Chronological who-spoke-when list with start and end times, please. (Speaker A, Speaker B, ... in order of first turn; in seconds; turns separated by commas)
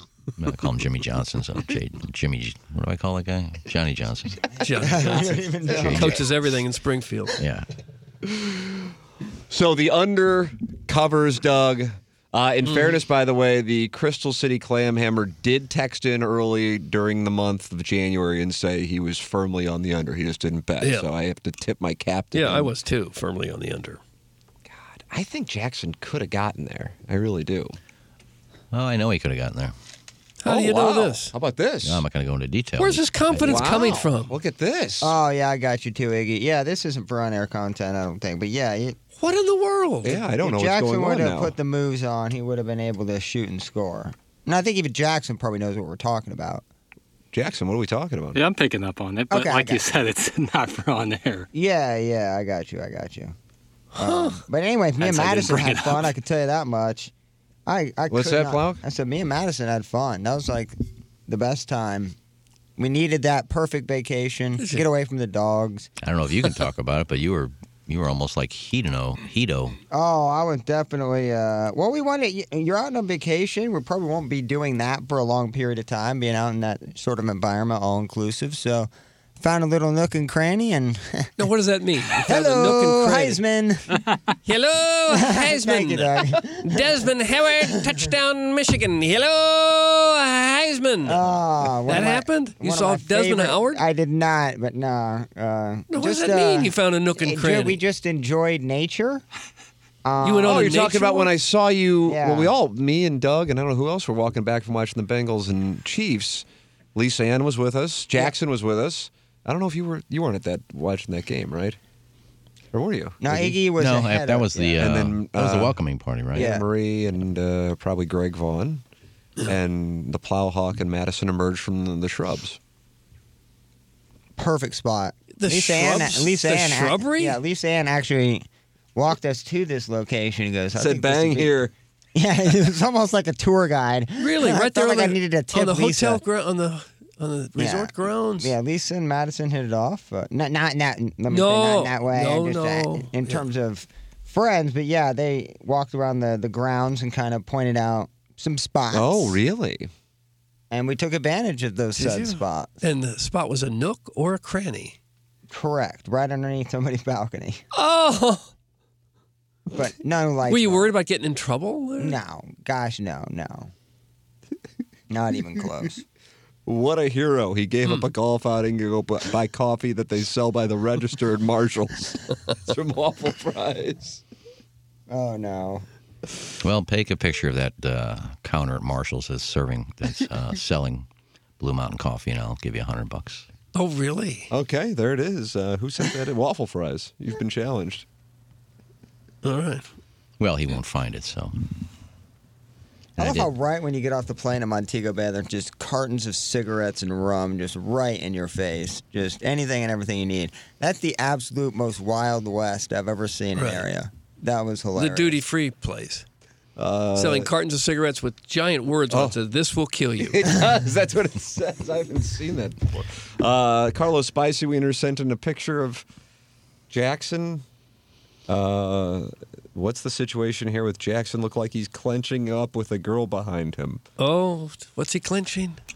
Speaker A: 0.4-4.5, Speaker B: 4.6-7.3, Speaker C: 4.7-6.2, Speaker A: 5.7-6.2, Speaker D: 5.7-6.2, Speaker A: 7.4-7.7, Speaker D: 8.2-8.7, Speaker D: 9.5-22.7, Speaker B: 12.6-12.9, Speaker B: 20.8-21.1, Speaker B: 22.3-24.0, Speaker D: 24.7-27.8, Speaker A: 28.7-29.7, Speaker B: 30.4-31.3, Speaker D: 30.4-32.0, Speaker A: 31.8-33.7, Speaker B: 32.8-34.4, Speaker D: 33.4-35.1, Speaker C: 35.0-39.0, Speaker B: 39.2-40.2, Speaker D: 40.0-41.5, Speaker C: 40.4-46.6, Speaker D: 47.3-48.4, Speaker E: 48.3-51.5, Speaker C: 49.3-49.8, Speaker C: 51.5-53.3, Speaker B: 54.0-54.4, Speaker C: 54.0-57.1, Speaker E: 55.0-56.1, Speaker C: 57.7-60.7, Speaker D: 58.1-58.8, Speaker C: 61.3-62.1, Speaker C: 62.8-65.9, Speaker B: 64.6-64.8, Speaker A: 66.0-69.8, Speaker C: 69.9-81.3, Speaker B: 81.4-83.4, Speaker C: 82.2-83.8, Speaker B: 84.5-91.2, Speaker C: 85.1-87.9, Speaker C: 91.0-99.2, Speaker B: 91.8-93.8, Speaker B: 95.9-97.8, Speaker C: 100.0-100.7, Speaker B: 100.2-101.3, Speaker D: 100.5-111.8, Speaker C: 102.0-102.5, Speaker D: 112.7-113.6, Speaker C: 113.2-114.9, Speaker A: 113.8-116.5, Speaker D: 114.8-115.8, Speaker D: 116.3-118.8, Speaker C: 116.3-116.7, Speaker D: 119.5-122.6, Speaker C: 124.4-131.6, Speaker B: 125.3-127.4, Speaker D: 130.7-131.7, Speaker C: 132.1-136.2, Speaker B: 134.2-138.5, Speaker C: 137.6-149.4, Speaker B: 141.3-143.4, Speaker D: 148.9-149.9, Speaker C: 150.7-152.7, Speaker B: 151.9-154.9, Speaker C: 155.5-157.6, Speaker B: 157.7-158.5, Speaker C: 159.7-160.9, Speaker B: 160.4-162.2, Speaker C: 162.0-163.7, Speaker C: 165.1-166.0, Speaker D: 166.7-174.2, Speaker C: 175.1-175.9, Speaker A: 176.6-181.1, Speaker A: 181.6-183.4, Speaker B: 183.7-184.5, Speaker D: 184.5-188.1, Speaker B: 189.4-189.9, Speaker A: 190.4-191.6, Speaker A: 193.2-193.5, Speaker C: 193.2-205.4, Speaker B: 203.6-203.8, Speaker B: 204.9-206.2, Speaker D: 206.8-207.5, Speaker B: 207.1-210.4, Speaker D: 209.1-209.4, Speaker D: 210.2-216.1, Speaker D: 216.9-217.6, Speaker D: 218.5-224.0, Speaker B: 224.2-225.8